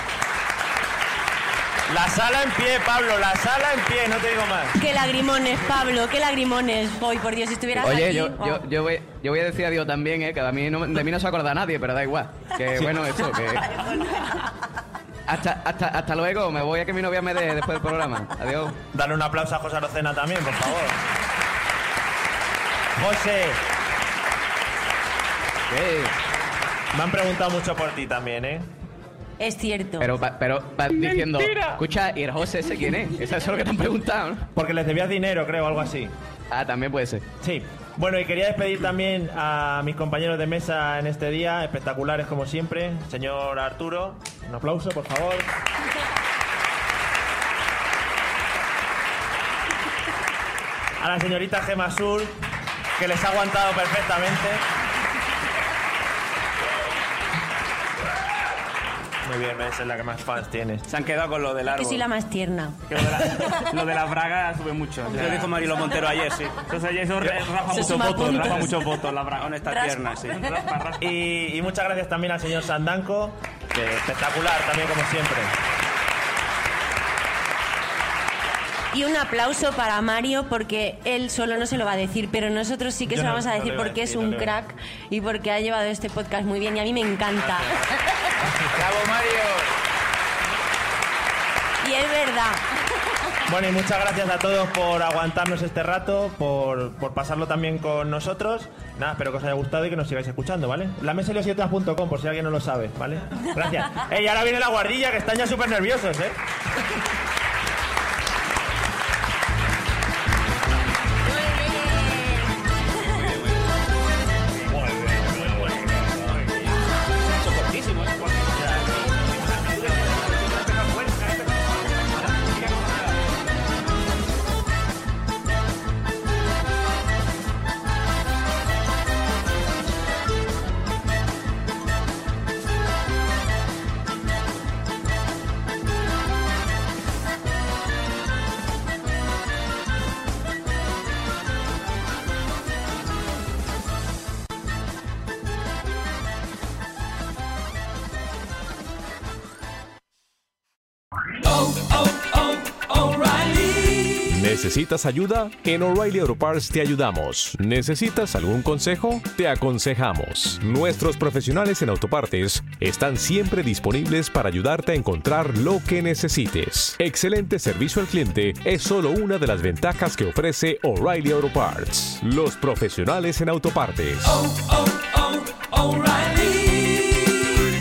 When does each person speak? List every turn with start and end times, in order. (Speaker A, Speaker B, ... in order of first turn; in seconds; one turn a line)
Speaker A: 1.9-4.8
Speaker B: 4.8-8.6
Speaker C: 7.7-13.8
Speaker C: 15.3-18.8
Speaker A: 18.9-21.0
Speaker A: 22.9-23.6
Speaker C: 25.7-26.1
Speaker A: 26.9-28.7
Speaker B: 29.4-30.1
Speaker C: 30.0-34.5
Speaker D: 30.9-31.8
Speaker A: 34.5-36.1
Speaker C: 36.5-37.2
Speaker A: 37.4-45.5
Speaker A: 51.0-52.4
Speaker A: 53.0-54.6
Speaker A: 59.2-60.8
Speaker E: 60.9-62.1
Speaker B: 61.7-62.8
Speaker F: 62.9-65.5
Speaker E: 65.1-66.6
Speaker A: 65.2-65.5
Speaker F: 66.6-69.5
Speaker A: 67.2-68.6
Speaker B: 67.7-68.7
Speaker E: 69.3-70.5
Speaker B: 69.7-70.1
Speaker F: 70.1-71.1
Speaker A: 71.0-75.5
Speaker B: 78.9-88.2
Speaker A: 83.1-84.5
Speaker D: 88.7-89.7
Speaker B: 91.8-92.7
Speaker A: 93.5-106.4
Speaker B: 111.5-112.2
Speaker E: 113.0-113.6
Speaker A: 114.7-116.2
Speaker F: 115.5-116.0
Speaker E: 117.3-118.8
Speaker F: 117.7-118.7
Speaker A: 118.5-120.0
Speaker F: 119.9-121.2
Speaker F: 122.4-123.1
Speaker G: 154.2-174.5